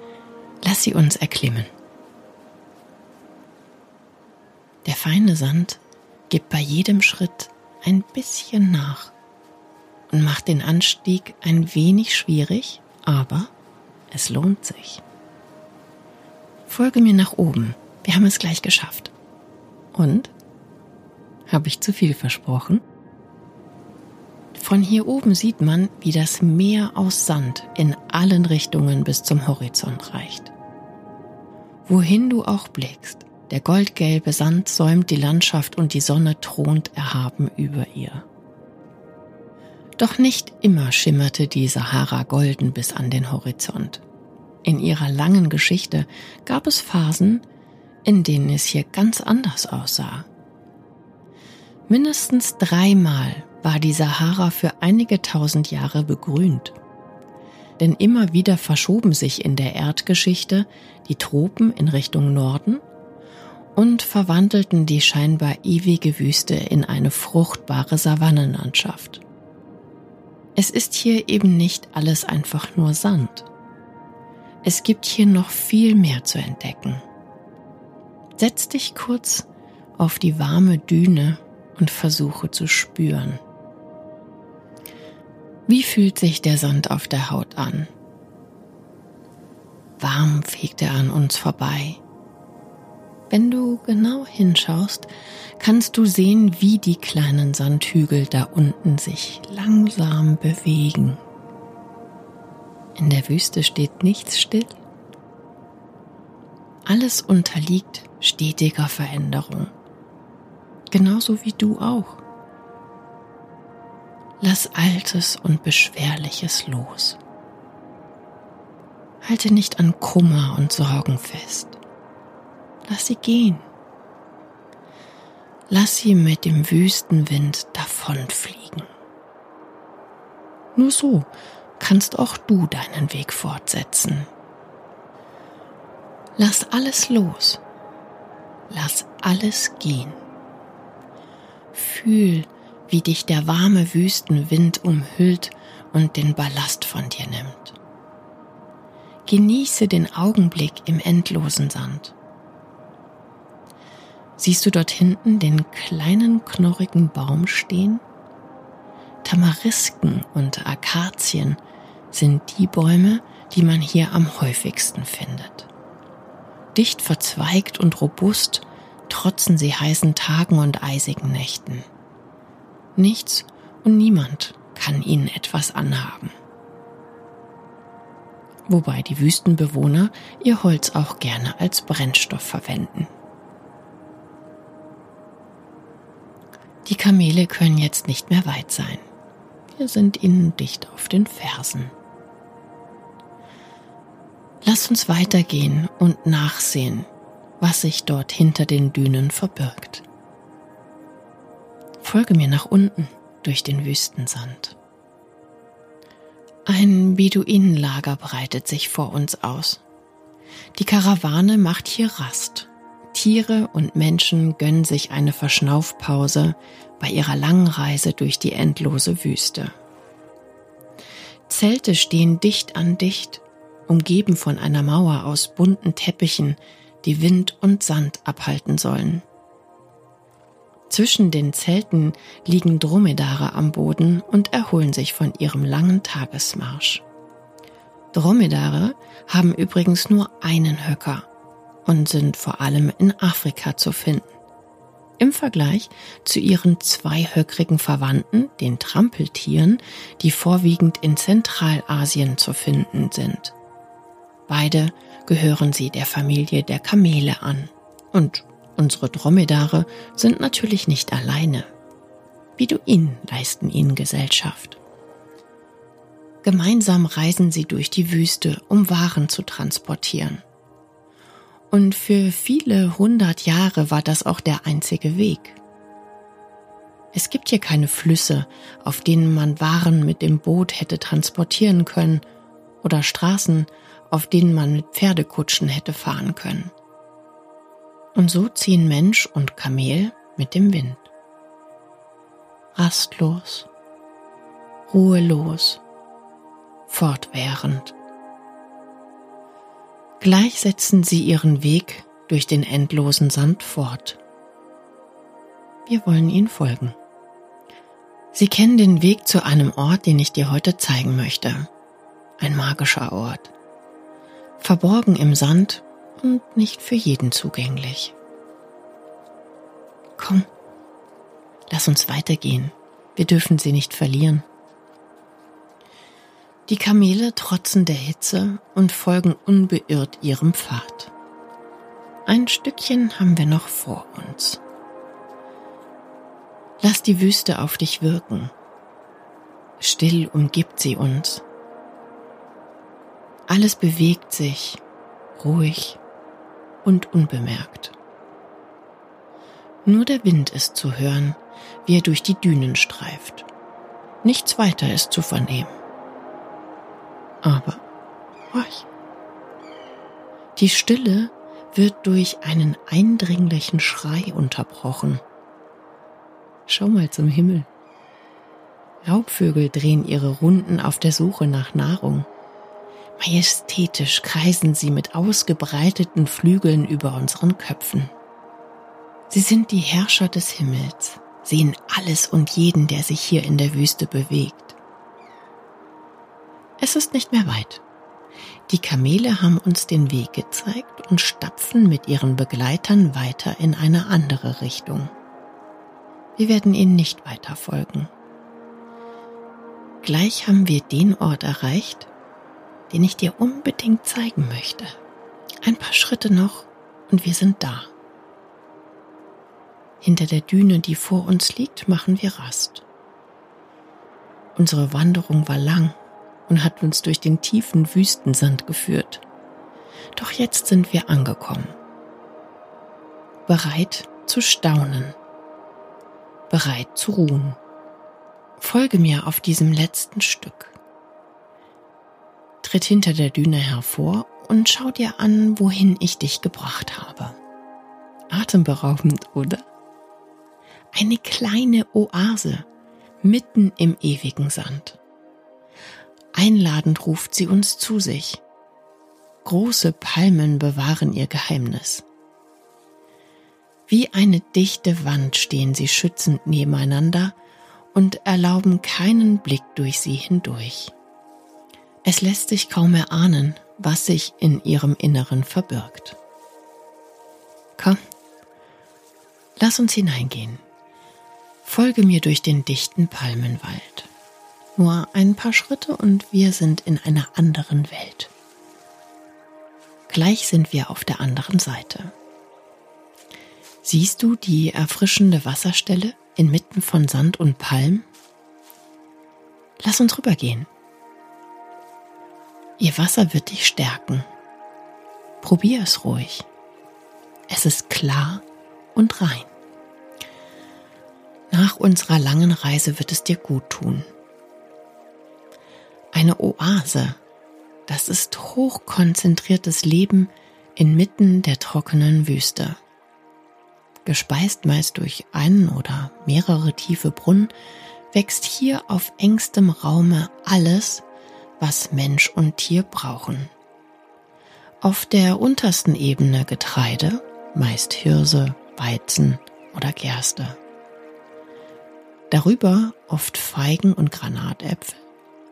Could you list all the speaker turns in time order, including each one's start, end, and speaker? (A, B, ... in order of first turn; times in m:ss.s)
0:00.6-0:01.7 A
0:04.8-0:09.1 A
0:10.1-0:13.5 A
0:14.1-0:15.0 A
0:16.7-0:19.1 A
0:19.9-0:20.3 A
0:21.5-0:22.8 A
0:24.5-0:30.5 A
0:31.8-0:38.2 A
0:40.0-0:44.0 A
0:44.6-0:47.4 A
0:48.0-0:50.3 A
0:51.9-0:56.8 A
0:57.8-1:02.8 A
1:03.7-1:09.2 A
1:10.6-1:13.5 A
1:14.6-1:17.0 A
1:18.4-1:23.4 A
1:25.7-1:27.9 A
1:30.0-1:32.0 A
1:33.3-1:41.2 A
1:43.0-1:44.8 A
1:46.8-1:49.7 A
1:50.9-1:52.2 A
1:54.4-1:57.2 A
1:59.2-2:01.8 A
2:02.9-2:03.6 A
2:05.7-2:08.9 A
2:10.7-2:14.3 A
2:16.4-2:17.6 A
2:18.7-2:20.2 A
2:21.7-2:27.8 A
2:29.2-2:32.1 A
2:34.4-2:38.0 A
2:39.2-2:41.6 A
2:42.1-2:45.7 A
2:46.7-2:51.9 A
2:53.0-2:56.3 A
2:58.7-3:03.1 A
3:06.8-3:09.1 A
3:09.7-3:11.9 A
3:14.6-3:17.1 A
3:17.6-3:20.0 A
3:22.0-3:24.8 A
3:26.6-3:29.8 A
3:30.8-3:39.7 A
3:41.5-3:49.2 A
3:50.9-3:57.0 A
3:58.1-4:01.3 A
4:01.8-4:04.3 A
4:05.2-4:13.5 A
4:14.5-4:21.7 A
4:22.6-4:24.8 A
4:26.4-4:30.4 A
4:31.7-4:35.6 A
4:37.1-4:42.2 A
4:42.8-4:46.7 A
4:48.1-4:51.1 A
4:52.7-4:53.7 A
4:54.9-4:55.8 A
4:56.9-4:57.9 A
5:00.2-5:04.2 A
5:05.8-5:07.0 A
5:08.3-5:11.7 A
5:12.4-5:13.5 A
5:14.6-5:18.1 A
5:20.2-5:20.5 A
5:21.7-5:24.4 A
5:26.7-5:31.1 A
5:32.2-5:34.6 A
5:36.8-5:38.5 A
5:39.8-5:41.4 A
5:43.5-5:44.8 A
5:45.4-5:46.0 A
5:46.8-5:47.9 A
5:49.8-5:53.5 A
5:54.2-5:55.7 A
5:57.4-5:57.8 A
5:58.5-5:58.9 A
6:00.6-6:05.2 A
6:06.7-6:07.7 A
6:09.0-6:12.3 A
6:13.2-6:18.1 A
6:19.3-6:24.8 A
6:26.8-6:27.8 A
6:28.7-6:35.1 A
6:36.4-6:38.1 A
6:40.0-6:42.1 A
6:42.9-6:45.0 A
6:45.6-6:47.9 A
6:50.0-6:52.8 A
6:54.5-6:59.2 A
7:00.2-7:01.8 A
7:03.5-7:05.2 A
7:06.5-7:07.6 A
7:08.6-7:10.8 A
7:12.6-7:17.4 A
7:18.3-7:19.6 A
7:20.9-7:22.7 A
7:23.2-7:25.0 A
7:26.3-7:28.4 A
7:29.4-7:32.0 A
7:33.9-7:37.4 A
7:37.9-7:40.9 A
7:42.0-7:46.2 A
7:49.6-7:50.6 A
7:51.6-7:54.1 A
7:54.8-7:58.3 A
8:00.1-8:02.1 A
8:03.8-8:08.1 A
8:09.8-8:10.7 A
8:12.8-8:14.2 A
8:15.4-8:16.5 A
8:17.5-8:19.5 A
8:21.5-8:24.0 A
8:26.1-8:27.2 A
8:27.9-8:32.8 A
8:34.0-8:37.5 A
8:38.1-8:41.0 A
8:41.6-8:43.5 A
8:44.8-8:50.6 A
8:52.3-8:55.0 A